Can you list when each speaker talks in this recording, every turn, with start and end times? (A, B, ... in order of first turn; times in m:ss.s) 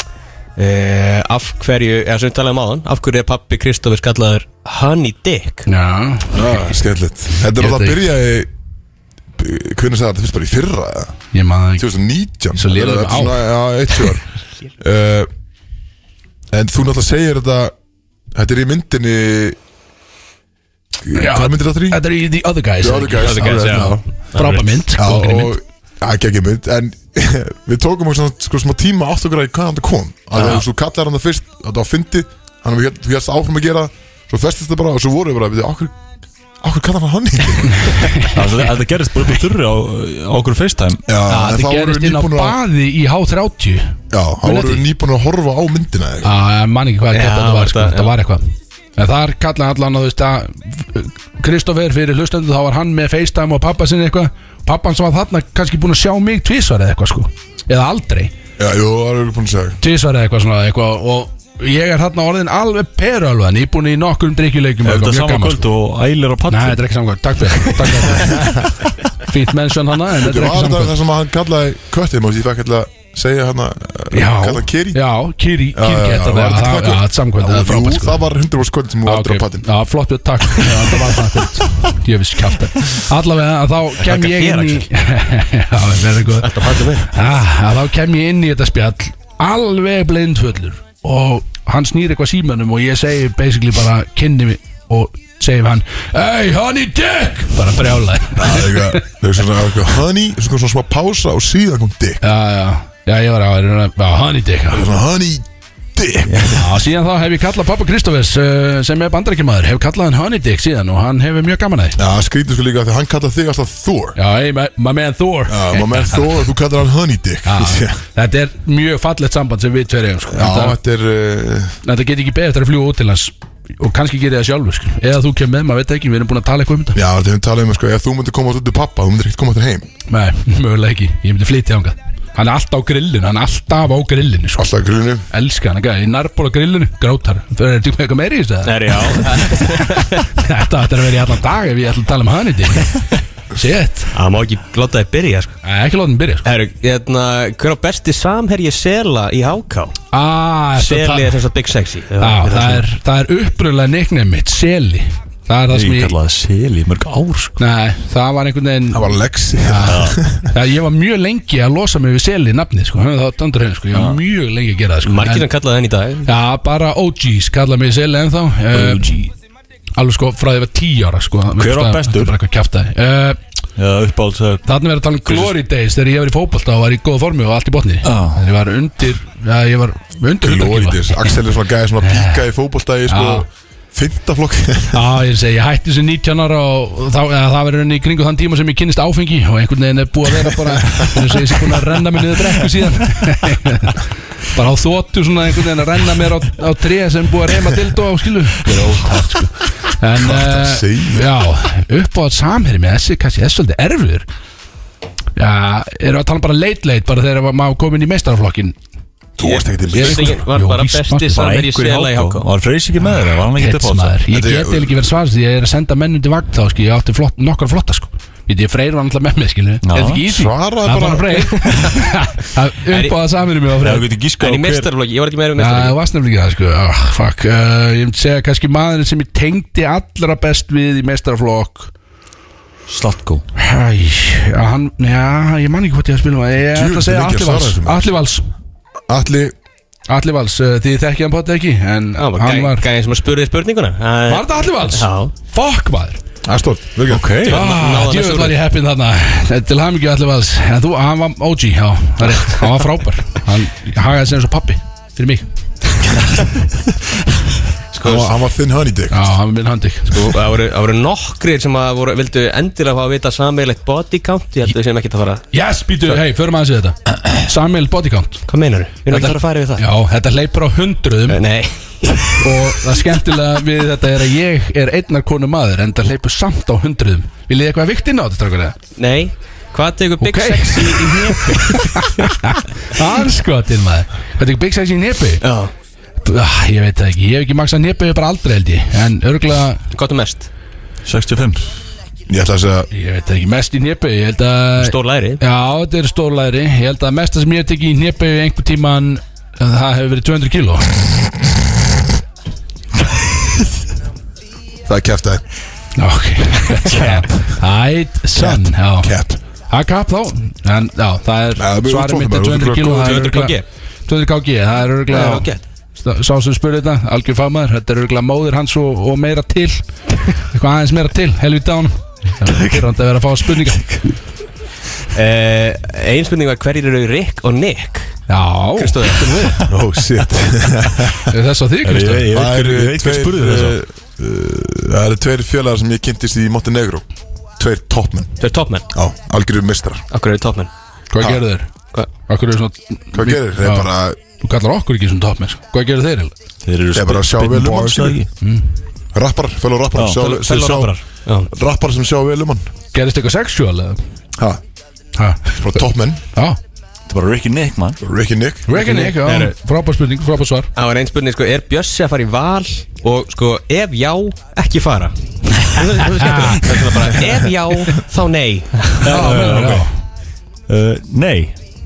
0:00.6-0:05.7 A
0:05.7-0:06.6 B
0:06.3-0:08.5 C
0:07.5-0:08.1 B
0:09.4-0:11.2 C
0:11.3-0:11.9 B
0:11.8-0:14.3 C
0:12.5-0:13.5 B
0:14.8-0:15.3 C
0:16.5-0:17.7 C
0:18.3-0:19.6 C
0:21.0-0:22.0 C
0:21.1-0:25.6 B
0:22.8-0:24.0 C
0:23.2-0:24.8 A
0:25.0-0:36.0 C
0:30.4-0:30.6 A
0:36.6-0:38.2 C
0:37.8-0:38.4 B
0:38.3-0:41.0 D
0:41.0-0:42.6 C
0:41.3-0:44.8 B
0:44.1-0:46.3 C
0:46.2-0:58.3 B
0:47.1-0:48.1 A
0:58.6-0:59.8 C
0:59.8-1:05.7 B
1:04.8-1:06.8 D
1:06.5-1:11.0 B
1:07.5-1:08.2 D
1:08.2-1:08.6 C
1:10.1-1:15.0 C
1:14.1-1:18.2 B
1:15.7-1:19.7 C
1:19.0-1:39.0 B
1:24.0-1:24.8 A
1:26.4-1:27.1 A
1:38.4-1:42.2 C
1:42.2-1:44.9 B
1:44.7-1:46.8 C
1:46.4-1:52.0 B
1:52.0-1:54.2 C
1:54.2-1:56.3 B
1:55.5-1:58.0 C
1:57.4-2:00.8 B
2:00.3-2:01.8 C
2:01.8-2:07.0 B
2:06.9-2:09.9 C
2:10.1-2:14.7 B
2:14.6-2:15.2 C
2:15.3-2:23.0 B
2:18.6-2:20.2 A
2:23.5-2:24.1 B
2:24.1-2:25.6 A
2:25.6-2:26.5 B
2:26.4-2:30.0 A
2:30.1-2:31.4 B
2:30.7-2:32.8 A
2:32.2-2:36.1 B
2:35.7-2:37.6 D
2:37.6-2:45.5 B
2:38.9-2:40.5 C
2:39.8-2:40.2 D
2:43.9-2:44.2 D
2:45.0-2:46.3 A
2:46.2-2:49.3 B
2:50.0-2:53.4 B
2:51.6-2:52.4 D
2:53.8-2:54.6 D
2:54.6-3:01.4 B
2:55.2-2:55.5 D
2:58.0-2:58.4 D
3:00.4-3:05.1 C
3:02.0-3:02.4 B
3:03.1-3:03.4 B
3:04.9-3:24.2 B
3:20.2-3:21.3 C
3:25.4-3:28.8 B
3:29.4-3:30.4 C
3:29.4-3:32.5 A
3:29.9-3:31.5 B
3:31.3-3:34.2 D
3:33.5-3:44.1 B
3:34.3-3:35.0 C
3:39.8-3:40.2 D
3:40.3-3:41.4 C
3:41.6-3:42.0 A
3:42.9-3:43.2 A
3:43.8-3:44.9 D
3:44.4-3:46.0 A
3:45.6-3:51.9 B
3:52.9-3:53.4 D
3:53.6-3:58.5 B
3:56.7-3:58.1 C
3:59.1-3:59.5 C
4:00.1-4:02.8 B
4:02.2-4:05.3 A
4:04.3-4:06.2 B
4:06.4-4:07.4 C
4:07.1-4:07.6 D
4:07.4-4:08.6 A
4:07.5-4:15.5 B
4:17.9-4:18.3 A
4:17.9-4:19.3 C
4:19.1-4:20.4 B
4:20.1-4:25.5 A
4:25.5-4:28.4 B
4:28.5-4:29.8 A
4:29.1-4:31.4 B
4:31.3-4:32.4 A
4:32.4-4:38.8 B
4:39.0-4:42.2 A
4:40.2-4:45.4 B
4:45.4-4:45.7 A
4:46.2-4:49.8 B
4:49.9-4:50.5 A
4:51.0-4:51.7 D
4:52.3-4:52.9 C
4:52.9-5:01.0 B
4:54.8-4:55.4 A
5:04.8-5:05.4 C
5:06.0-5:09.1 B
5:06.9-5:07.2 A
5:08.4-5:09.4 C
5:09.7-5:24.1 B
5:11.6-5:13.2 C
5:12.9-5:13.6 A
5:15.1-5:15.6 A
5:25.1-5:28.2 A
5:28.3-5:29.6 B
5:28.8-5:29.5 A
5:29.6-5:31.3 C
5:31.2-5:32.3 B
5:31.8-5:33.8 D
5:32.3-5:38.3 C
5:38.4-5:38.9 A
5:38.9-5:40.0 C
5:40.1-5:40.7 A
5:41.1-5:46.3 B
5:43.1-5:44.2 C
5:46.6-5:48.3 D
5:46.9-5:48.2 C
5:48.4-5:48.7 B
5:49.1-5:51.0 C
5:49.9-5:50.2 D
5:50.2-5:51.5 A
5:51.5-5:52.7 C
5:52.9-5:54.0 B
5:55.2-5:56.6 B
5:55.6-5:56.2 C
5:57.1-5:58.0 D
5:58.0-5:58.7 C
5:58.7-6:00.7 B
5:58.7-5:59.5 A
6:00.8-6:09.0 A
6:05.7-6:06.9 B
6:09.0-6:09.8 D
6:09.0-6:10.0 B
6:10.7-6:11.6 D